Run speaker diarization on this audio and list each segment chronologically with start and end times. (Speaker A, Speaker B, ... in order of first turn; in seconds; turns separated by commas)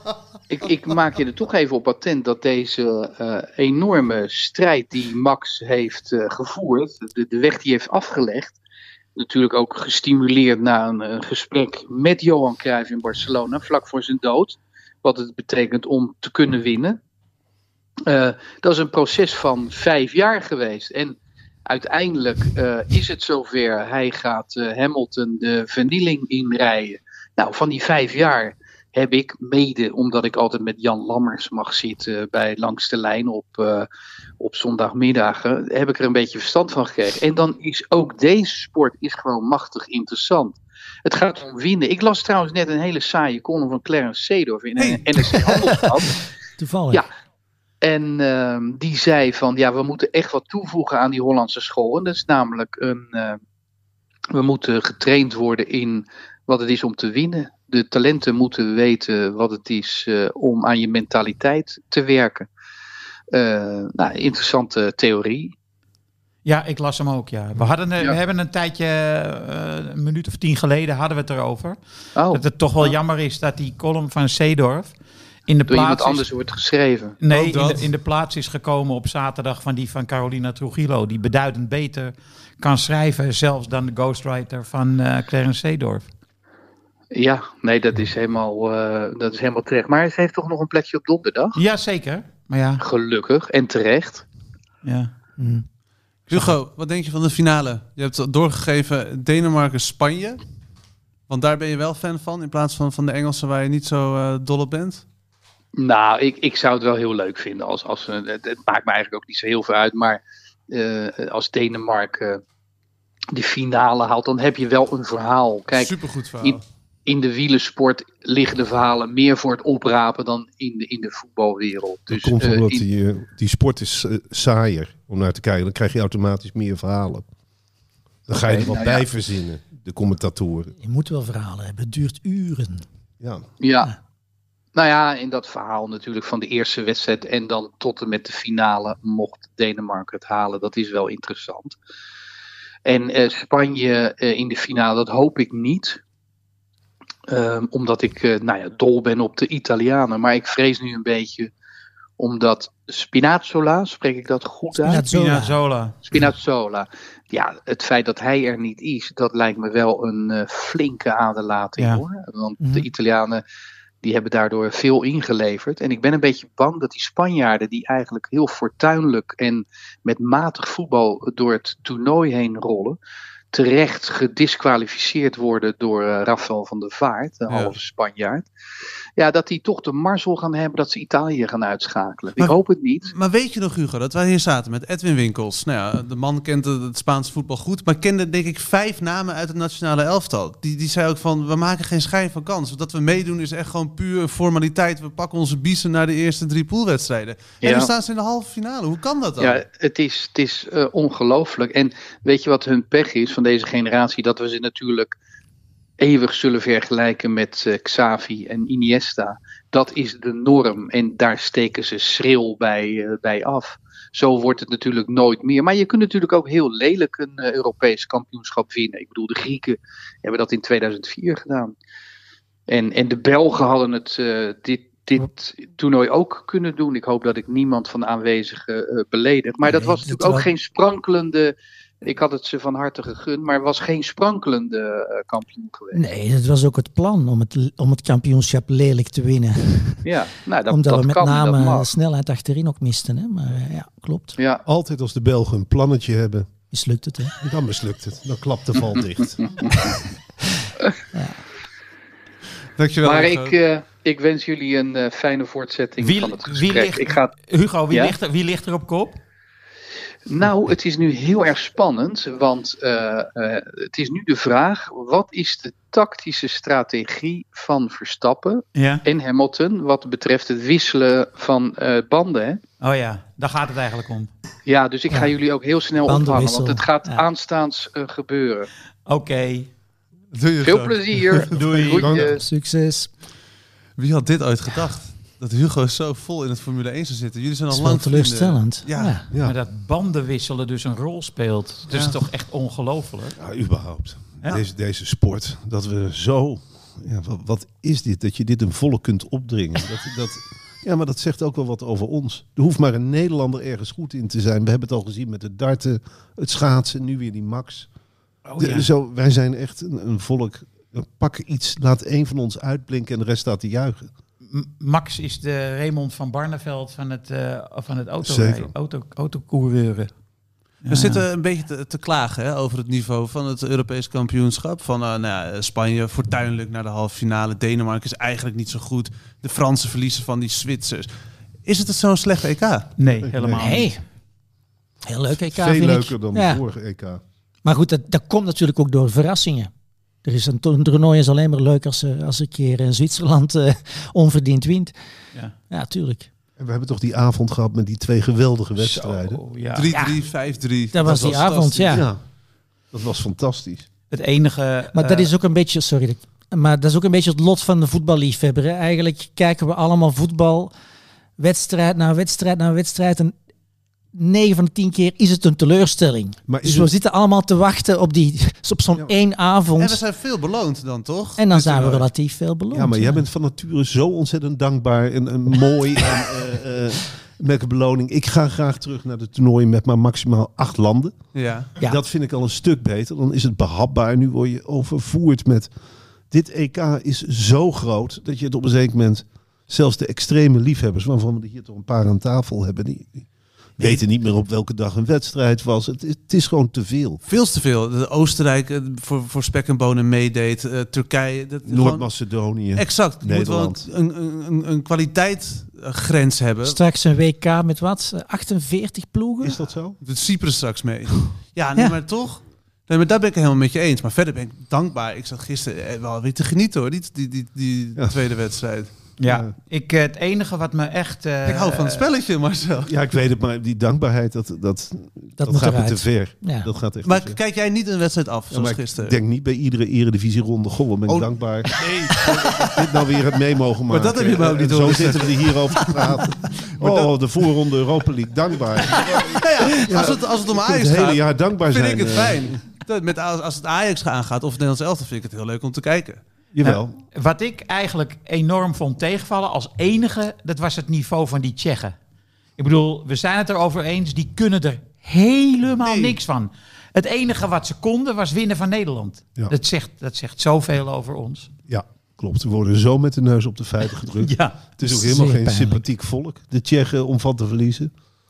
Speaker A: 0.5-8.6, Speaker A: 9.2-17.0, Speaker A: 18.1-33.9, Speaker A: 34.4-46.2, Speaker B: 44.8-45.8, Speaker C: 46.6-47.0, Speaker A: 47.8-53.4, Speaker A: 54.3-62.5, Speaker A: 63.3-65.5, Speaker D: 66.4-71.8, Speaker A: 72.2-72.9, Speaker D: 72.3-74.9, Speaker D: 75.5-76.3, Speaker A: 75.7-77.2, Speaker D: 77.2-86.1, Speaker B: 77.3-77.9, Speaker A: 87.1-91.6, Speaker D: 91.5-92.8, Speaker A: 92.8-94.2, Speaker D: 94.8-95.1, Speaker C: 95.4-95.6, Speaker B: 96.3-100.4, Speaker B: 101.3-105.0, Speaker A: 105.8-112.4, Speaker A: 113.3-122.8, Speaker B: 115.7-116.6, Speaker E: 122.1-127.3, Speaker E: 128.3-130.7, Speaker A: 128.4-129.0, Speaker C: 130.8-132.8, Speaker A: 133.6-133.9, Speaker A: 134.7-141.8, Speaker A: 142.8-146.0, Speaker A: 147.3-151.5, Speaker A: 152.2-155.0, Speaker C: 154.8-155.6, Speaker D: 155.0-156.0, Speaker A: 156.1-163.4, Speaker D: 161.8-162.0, Speaker C: 162.6-162.9, Speaker A: 164.0-173.0, Speaker A: 173.5-178.5, Speaker B: 177.5-177.8, Speaker A: 179.2-183.1, Speaker B: 183.1-199.6, Speaker A: 197.6-197.9, Speaker A: 199.4-205.2, Speaker A: 206.0-221.7, Speaker A: 222.7-236.0, Speaker C: 229.6-230.5, Speaker C: 235.9-240.1, Speaker A: 240.0-241.9, Speaker C: 240.7-244.3, Speaker A: 244.4-244.6, Speaker E: 244.7-246.5, Speaker C: 246.7-247.3, Speaker E: 247.4-249.7, Speaker A: 249.6-249.9, Speaker C: 250.6-251.4, Speaker B: 252.8-253.6, Speaker A: 253.0-257.3, Speaker D: 256.0-259.1, Speaker A: 260.3-272.6, Speaker D: 268.7-269.0, Speaker D: 272.8-274.3, Speaker A: 274.6-278.7, Speaker C: 276.0-277.2, Speaker D: 279.1-279.7, Speaker B: 280.3-281.5, Speaker A: 280.6-282.4, Speaker D: 281.5-282.1, Speaker E: 281.9-282.3, Speaker C: 282.1-283.1, Speaker B: 284.0-289.2, Speaker C: 287.7-289.3, Speaker D: 289.4-293.4, Speaker B: 291.9-292.1, Speaker E: 293.4-307.9, Speaker D: 308.4-308.9, Speaker E: 308.6-314.1, Speaker D: 314.5-320.1, Speaker E: 318.2-318.7, Speaker D: 320.8-321.2, Speaker B: 320.9-331.1, Speaker B: 331.6-332.9, Speaker D: 333.0-333.9, Speaker E: 333.2-333.9, Speaker C: 333.6-334.0, Speaker C: 335.0-336.6, Speaker E: 335.4-337.2, Speaker C: 337.6-339.7, Speaker C: 340.2-344.9, Speaker C: 345.7-346.3, Speaker E: 346.6-349.4, Speaker D: 348.8-349.9, Speaker B: 349.7-352.0, Speaker C: 349.9-350.2, Speaker C: 350.9-352.1, Speaker E: 351.0-352.2, Speaker E: 352.9-353.9, Speaker D: 354.1-355.3, Speaker C: 354.9-360.7, Speaker C: 361.4-363.3, Speaker C: 364.1-370.0, Speaker E: 366.5-366.9, Speaker B: 369.8-372.1, Speaker C: 371.4-373.2, Speaker E: 372.7-381.1, Speaker B: 381.3-381.7, Speaker E: 381.8-385.7, Speaker E: 386.3-397.2, Speaker B: 397.2-402.1, Speaker E: 401.6-403.8, Speaker B: 402.7-406.8, Speaker C: 406.6-409.6, Speaker E: 409.4-410.0, Speaker B: 410.0-418.9, Speaker D: 419.2-422.1, Speaker E: 419.2-419.5, Speaker B: 421.4-422.9, Speaker E: 422.8-427.4, Speaker C: 425.4-426.7, Speaker B: 427.0-429.2, Speaker E: 428.5-442.6, Speaker B: 431.1-432.7, Speaker B: 433.9-437.2, Speaker B: 438.8-446.2, Speaker E: 446.5-446.9, Speaker D: 446.6-451.9, Speaker D: 452.6-461.5, Speaker B: 455.8-456.2, Speaker E: 461.7-467.9, Speaker D: 464.0-464.6, Speaker C: 464.9-465.8